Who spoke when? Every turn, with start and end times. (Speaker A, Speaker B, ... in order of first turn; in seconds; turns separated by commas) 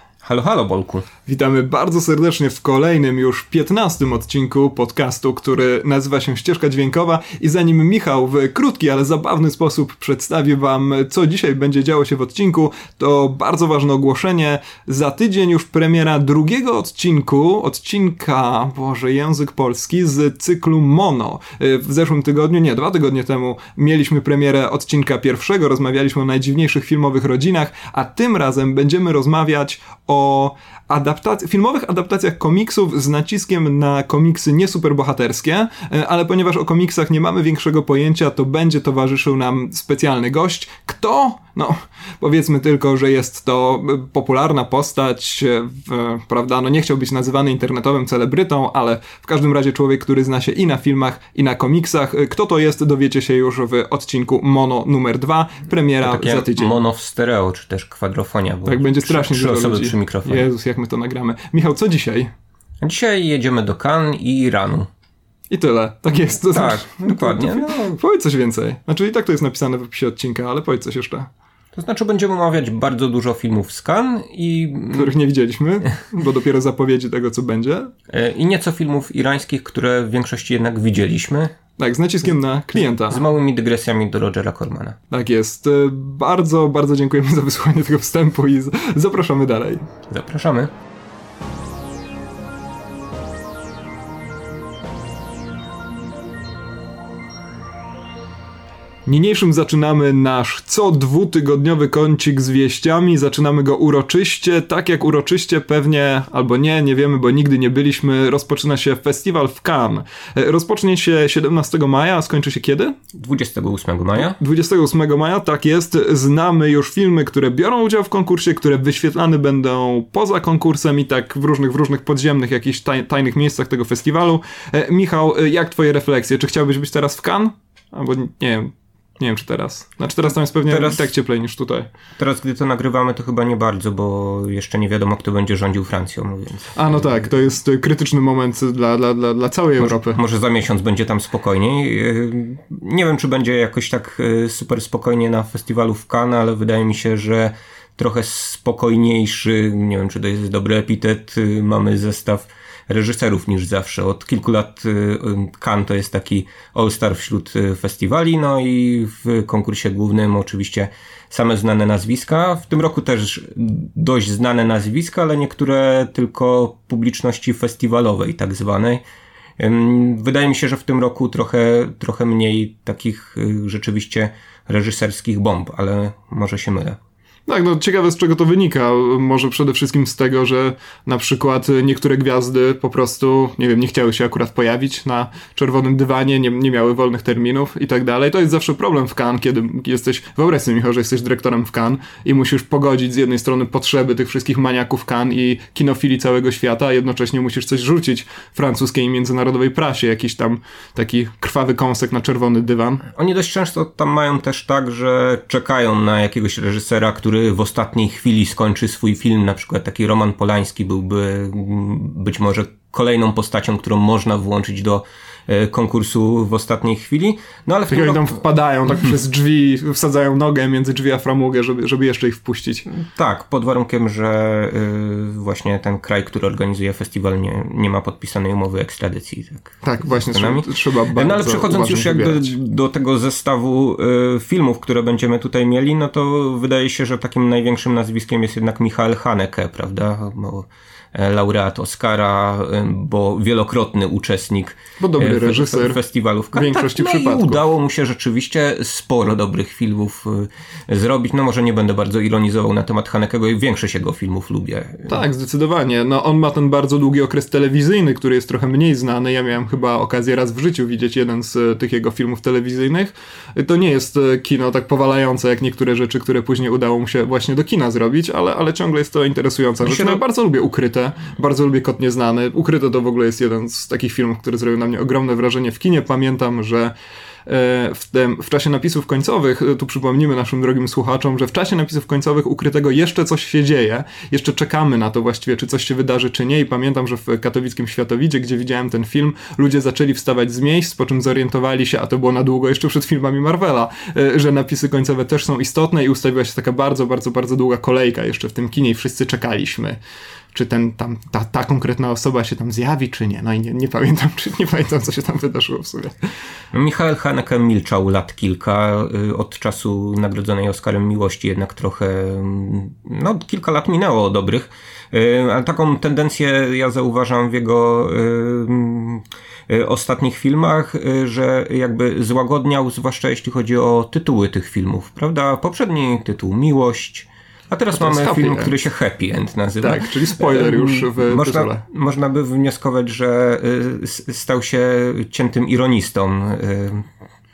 Speaker A: 0.2-1.1, Speaker B: 1.3-56.8, Speaker A: 56.0-60.5, Speaker B: 58.7-62.3, Speaker A: 62.8-64.9, Speaker B: 65.5-71.3, Speaker A: 66.5-68.0, Speaker A: 71.7-75.1, Speaker B: 74.9-77.9, Speaker A: 78.1-81.6, Speaker B: 81.8-83.2, Speaker A: 82.8-85.0, Speaker B: 85.1-89.9, Speaker A: 90.1-90.7, Speaker B: 99.1-113.0, Speaker A: 113.2-114.4, Speaker B: 114.2-131.9, Speaker A: 130.7-131.1, Speaker A: 132.2-137.1, Speaker B: 136.7-140.2, Speaker A: 139.8-169.0, Speaker A: 169.6-177.0, Speaker B: 177.5-203.1, Speaker A: 203.1-218.4, Speaker B: 217.9-222.9, Speaker A: 222.9-255.2, Speaker B: 229.8-232.5, Speaker B: 245.0-246.0, Speaker B: 246.5-247.6, Speaker B: 255.1-276.9, Speaker A: 269.8-270.2, Speaker B: 277.5-300.0, Speaker B: 300.5-306.1, Speaker A: 306.7-337.1, Speaker B: 327.9-328.8, Speaker B: 329.8-331.8